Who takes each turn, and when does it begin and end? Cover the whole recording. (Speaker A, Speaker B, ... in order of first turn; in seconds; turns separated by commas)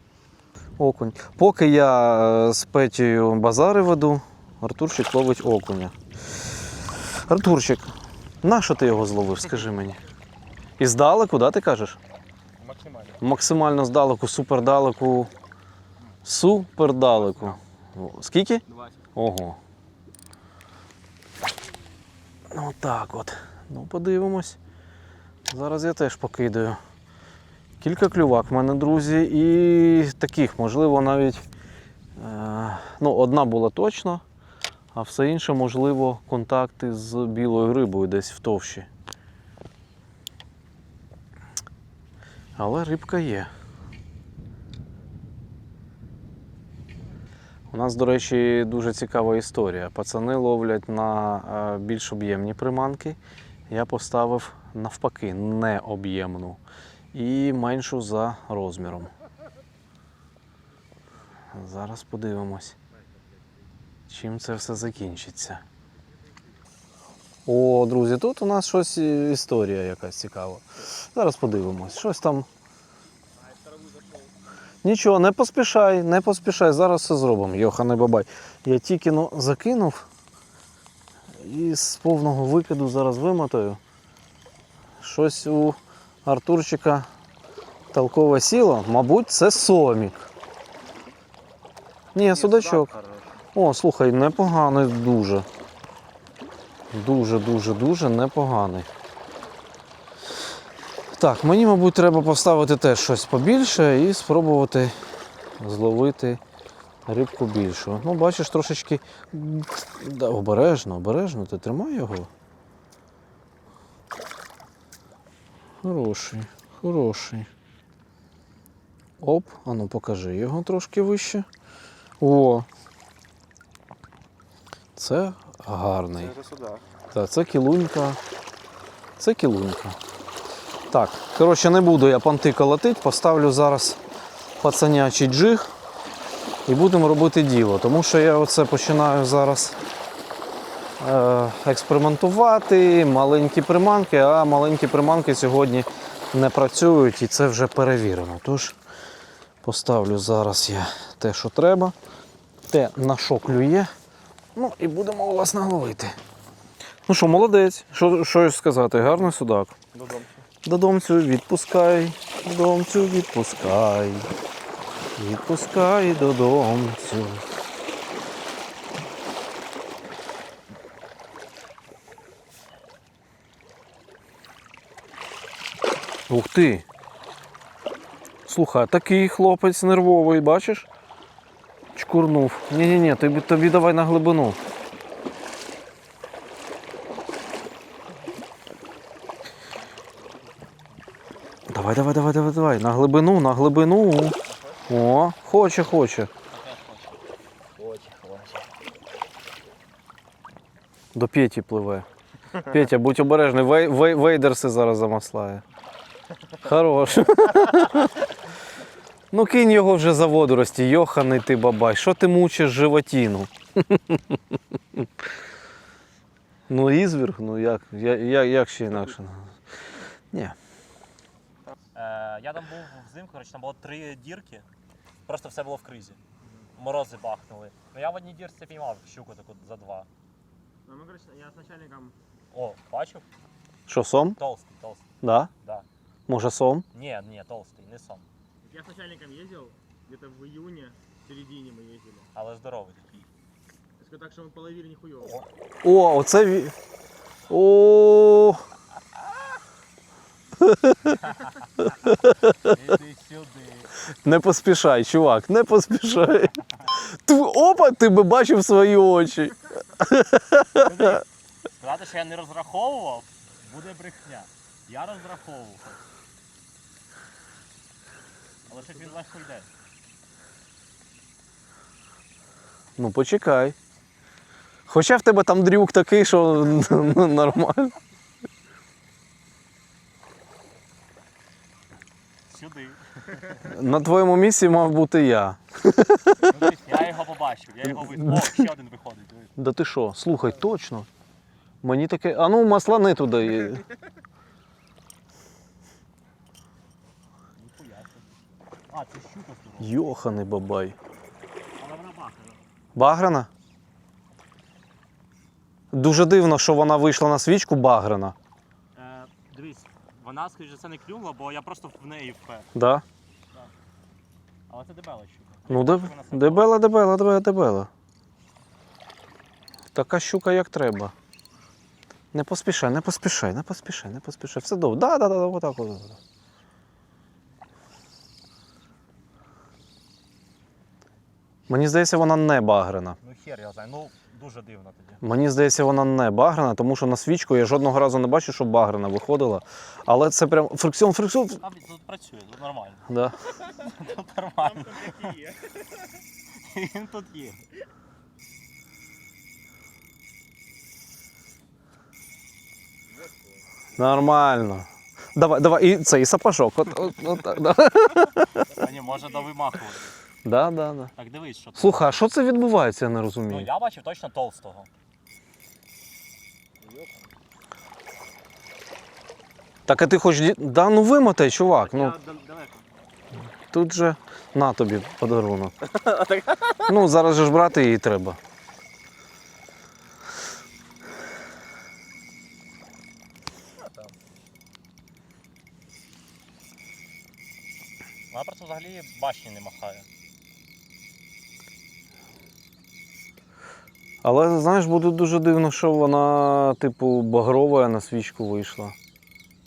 Speaker A: 0.8-5.9, Speaker A: 7.1-10.0, Speaker A: 10.8-12.0, Speaker B: 12.6-13.2, Speaker A: 13.2-15.3, Speaker A: 16.2-18.6, Speaker B: 17.2-17.5, Speaker B: 18.7-19.0, Speaker A: 19.1-19.6, Speaker A: 22.5-24.6, Speaker A: 25.5-26.8, Speaker A: 27.8-31.4, Speaker A: 32.2-34.2, Speaker A: 34.9-38.9, Speaker A: 42.6-43.5, Speaker A: 47.7-53.2, Speaker A: 53.7-56.6, Speaker A: 57.1-59.1, Speaker A: 61.5-62.8, Speaker A: 64.1-65.6, Speaker A: 67.5-72.5, Speaker B: 73.3-74.3, Speaker A: 74.8-80.0, Speaker A: 81.4-83.8, Speaker A: 85.0-87.1, Speaker A: 87.9-90.3, Speaker A: 92.1-92.9, Speaker C: 92.3-93.4, Speaker A: 93.5-95.5, Speaker A: 96.9-98.9, Speaker A: 101.1-104.9, Speaker A: 105.6-106.4, Speaker A: 107.0-112.3, Speaker A: 115.8-117.5, Speaker A: 119.2-121.5, Speaker A: 122.2-122.7, Speaker A: 125.0-126.3, Speaker B: 126.2-126.8, Speaker A: 127.1-128.2, Speaker A: 129.2-130.0, Speaker A: 130.9-134.0, Speaker A: 134.6-135.7, Speaker A: 136.7-139.8, Speaker A: 141.0-148.8, Speaker A: 149.6-151.9, Speaker A: 152.7-153.9, Speaker A: 154.5-156.2, Speaker A: 157.1-159.8, Speaker B: 159.9-160.4, Speaker A: 160.6-164.3, Speaker A: 165.2-167.5, Speaker A: 176.3-176.8, Speaker A: 178.5-180.9, Speaker A: 181.9-184.6, Speaker A: 191.7-196.3, Speaker C: 196.5-197.2, Speaker C: 197.8-198.6, Speaker A: 201.1-202.1, Speaker A: 202.6-205.6, Speaker A: 206.6-208.1, Speaker A: 209.3-215.1, Speaker A: 216.7-219.5, Speaker C: 221.9-224.7, Speaker C: 225.2-226.2, Speaker C: 226.8-230.1, Speaker B: 230.8-232.1, Speaker C: 232.5-233.2, Speaker A: 233.9-234.4, Speaker C: 234.4-235.1, Speaker A: 235.2-235.5, Speaker A: 236.3-236.8, Speaker C: 236.9-238.3, Speaker B: 238.6-242.3, Speaker C: 242.3-243.3, Speaker B: 244.0-245.4, Speaker A: 245.8-246.7, Speaker A: 247.5-248.6, Speaker A: 250.6-251.2, Speaker C: 251.2-251.7, Speaker A: 252.0-252.5, Speaker C: 252.5-253.9, Speaker A: 254.2-261.2, Speaker C: 260.8-266.0, Speaker C: 268.7-269.7, Speaker A: 273.0-273.8, Speaker A: 274.9-278.0, Speaker C: 282.5-283.5, Speaker A: 283.6-286.5, Speaker C: 286.4-289.5, Speaker A: 287.8-288.7, Speaker A: 289.6-291.1, Speaker A: 291.8-293.8, Speaker C: 297.6-298.3, Speaker C: 298.9-299.9, Speaker A: 299.8-300.9, Speaker C: 301.8-302.6, Speaker A: 302.9-303.5, Speaker A: 305.9-308.3, Speaker C: 308.9-312.7, Speaker A: 312.7-313.0, Speaker C: 314.7-316.7, Speaker A: 315.7-317.9, Speaker A: 319.9-321.1, Speaker A: 322.3-326.2, Speaker A: 331.7-333.2, Speaker C: 333.2-335.2, Speaker A: 335.2-341.6, Speaker C: 341.6-343.1, Speaker A: 343.1-343.4, Speaker C: 343.6-345.4, Speaker B: 344.6-345.8, Speaker C: 346.6-347.6, Speaker A: 354.0-358.7, Speaker C: 358.6-360.1, Speaker A: 360.4-361.1, Speaker C: 361.1-362.2, Speaker A: 361.8-363.7, Speaker C: 363.5-364.9, Speaker B: 366.8-367.2, Speaker A: 369.9-372.1, Speaker C: 371.8-372.8, Speaker A: 373.6-375.7, Speaker A: 376.8-378.4, Speaker C: 383.8-384.1, Speaker C: 388.3-390.1, Speaker A: 394.2-398.9